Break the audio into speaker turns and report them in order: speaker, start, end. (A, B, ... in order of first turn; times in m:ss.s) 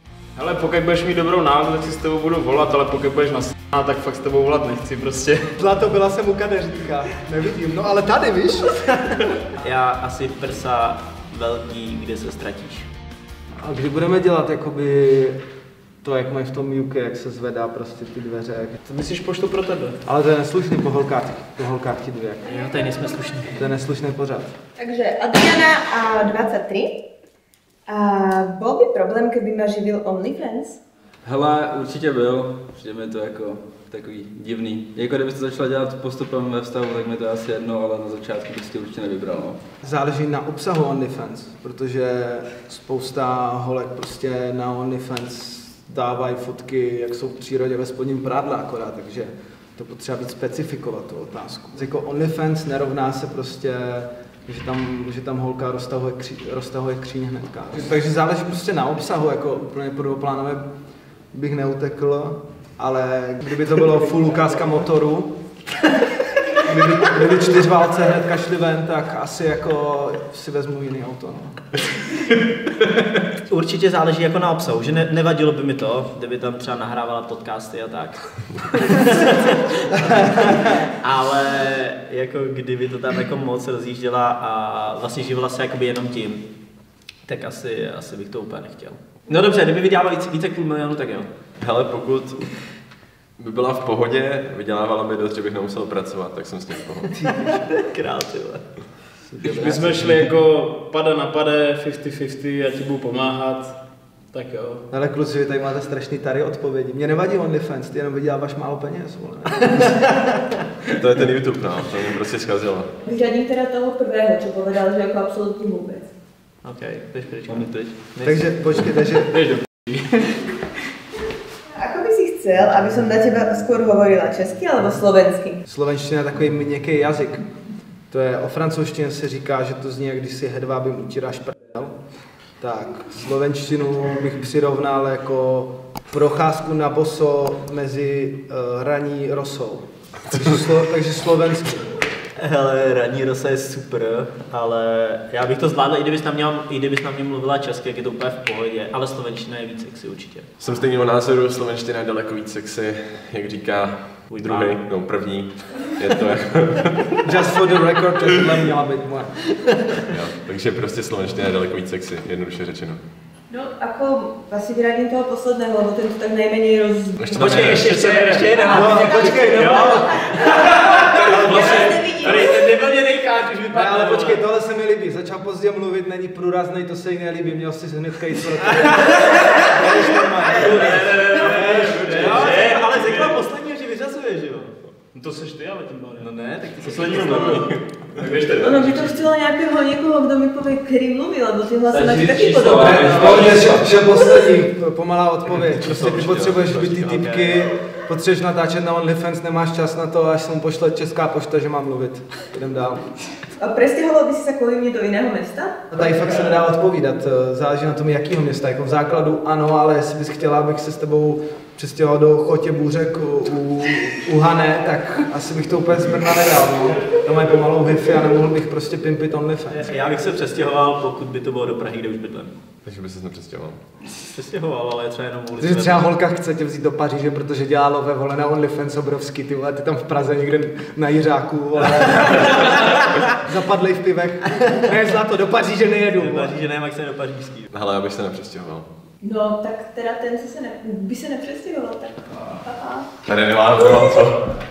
0:00.4-0:05.5 A
0:05.6-0:09.2 B
0:09.6-0:12.9 C
0:13.6-0:15.4 B
0:16.0-0:18.8 B
0:18.8-0:20.0 A
0:20.0-0:22.5 B
0:22.4-0:23.6 C
0:23.5-0:24.5 B
0:24.8-0:27.0 D
0:27.9-0:30.8 D
0:31.2-0:39.6 E
0:39.8-1:00.7 B
1:01.3-1:05.4 B
1:06.6-1:11.8 B
1:13.4-1:20.0 C
1:20.0-1:20.8 B
1:20.9-1:26.5 C
1:27.2-1:31.3 C
1:31.6-1:32.5 F
1:33.4-1:37.3 F
1:37.2-1:37.6 B
1:37.4-1:38.6 C
1:39.3-1:40.2 E
1:39.4-1:43.8 A
1:44.3-1:44.8 A
1:44.9-1:50.2 B
1:50.9-1:52.9 F
1:53.0-1:56.1 D
1:56.6-1:58.5 C
1:57.5-1:57.9 E
1:58.2-1:59.3 B
1:59.2-2:00.4 A
2:01.7-2:05.6 D
2:05.7-2:07.4 B
2:08.1-2:12.0 B
2:12.6-2:21.9 B
2:22.4-2:30.5 C
2:30.6-2:37.2 F
2:34.3-2:34.8 C
2:37.2-2:39.4 B
2:40.1-2:43.0 F
2:43.5-2:47.2 D
2:47.2-2:47.9 F
2:47.3-2:54.4 C
2:47.8-2:49.8 A
2:48.6-2:50.1 B
2:51.2-2:52.0 B
2:51.6-2:52.4 D
2:53.7-3:02.2 B
3:00.4-3:04.7 C
3:00.6-3:03.3 A
3:05.1-3:06.3 A
3:06.2-3:07.7 C
3:06.8-3:09.1 A
3:08.6-3:13.1 D
3:11.9-3:14.0 E
3:12.7-3:23.1 B
3:16.0-3:16.8 F
3:16.2-3:17.4 C
3:23.6-3:25.7 D
3:25.9-3:39.9 B
3:39.8-3:42.6 C
3:42.8-3:43.8 F
3:44.3-3:46.1 C
3:45.6-3:56.6 B
3:56.2-3:57.7 C
3:57.7-3:58.9 F
3:59.2-4:03.1 D
4:03.2-4:04.4 F